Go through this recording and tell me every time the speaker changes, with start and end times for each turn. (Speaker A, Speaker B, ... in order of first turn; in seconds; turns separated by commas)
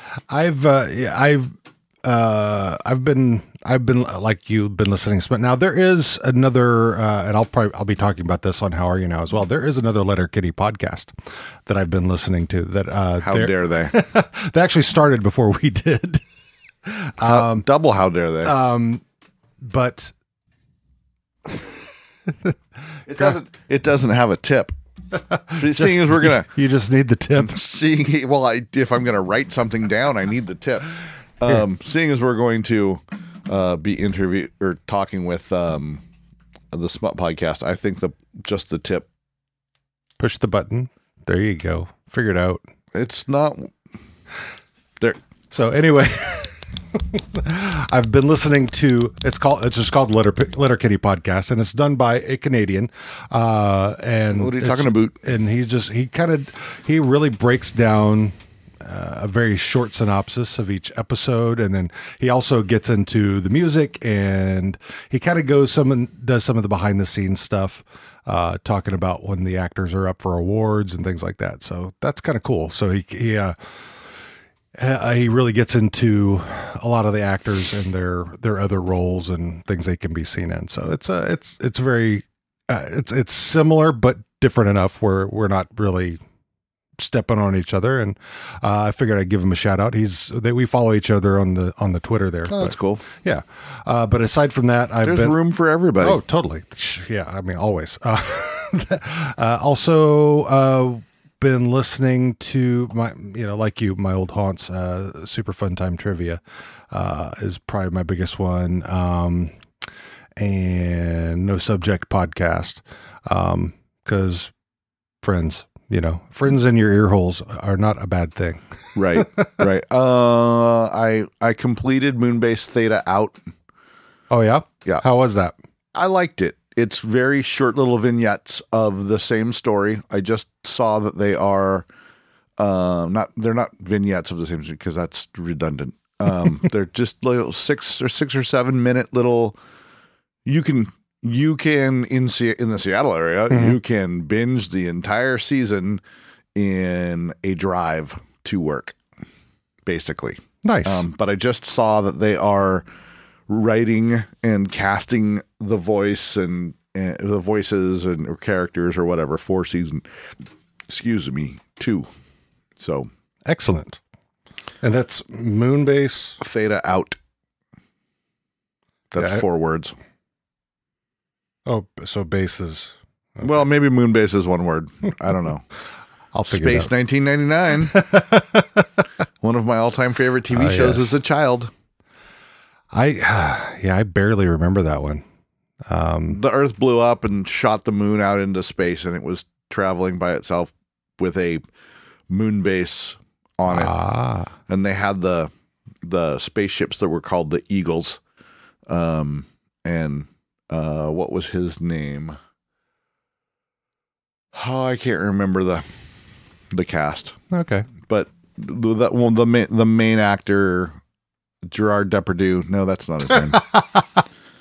Speaker A: 0.3-11.1, Speaker A: 11.7-16.2, Speaker B: 13.2-13.9, Speaker A: 16.9-17.7, Speaker B: 17.2-18.5, Speaker A: 18.4-19.0, Speaker A: 19.6-20.1, Speaker B: 23.1-24.7, Speaker A: 25.2-27.5, Speaker B: 25.5-26.5, Speaker B: 27.4-36.0, Speaker B: 36.7-39.1, Speaker A: 40.2-42.6, Speaker B: 42.9-43.7, Speaker A: 45.5-73.5, Speaker B: 54.4-55.2, Speaker A: 74.7-86.2, Speaker A: 87.0-95.3, Speaker B: 92.5-93.0, Speaker B: 95.0-96.2, Speaker A: 96.0-109.5, Speaker A: 110.4-114.5, Speaker A: 115.2-118.6, Speaker B: 119.0-123.4, Speaker A: 119.1-119.6, Speaker A: 124.3-125.5, Speaker B: 125.9-131.8, Speaker B: 132.6-139.6, Speaker B: 140.4-146.0, Speaker A: 143.5-143.8, Speaker B: 146.5-149.0, Speaker B: 149.8-152.8, Speaker A: 150.6-151.0, Speaker B: 153.5-160.1, Speaker B: 160.9-162.1, Speaker B: 162.8-163.1, Speaker A: 163.4-164.0, Speaker A: 164.8-166.4, Speaker B: 166.4-167.2, Speaker B: 169.1-169.9, Speaker A: 169.2-169.4, Speaker A: 171.7-173.7, Speaker B: 173.4-175.6, Speaker A: 176.3-176.9, Speaker B: 176.5-178.0, Speaker A: 177.9-178.8, Speaker B: 179.4-181.7, Speaker A: 180.5-181.2, Speaker A: 182.9-185.2, Speaker A: 185.8-186.4, Speaker B: 186.3-191.6, Speaker B: 192.3-193.9, Speaker A: 193.7-194.5, Speaker B: 194.7-195.5, Speaker B: 196.0-198.2, Speaker B: 198.9-202.4, Speaker B: 204.5-205.9, Speaker B: 206.7-207.4, Speaker A: 207.5-207.9, Speaker B: 208.1-211.0, Speaker B: 211.6-213.6, Speaker A: 213.5-214.2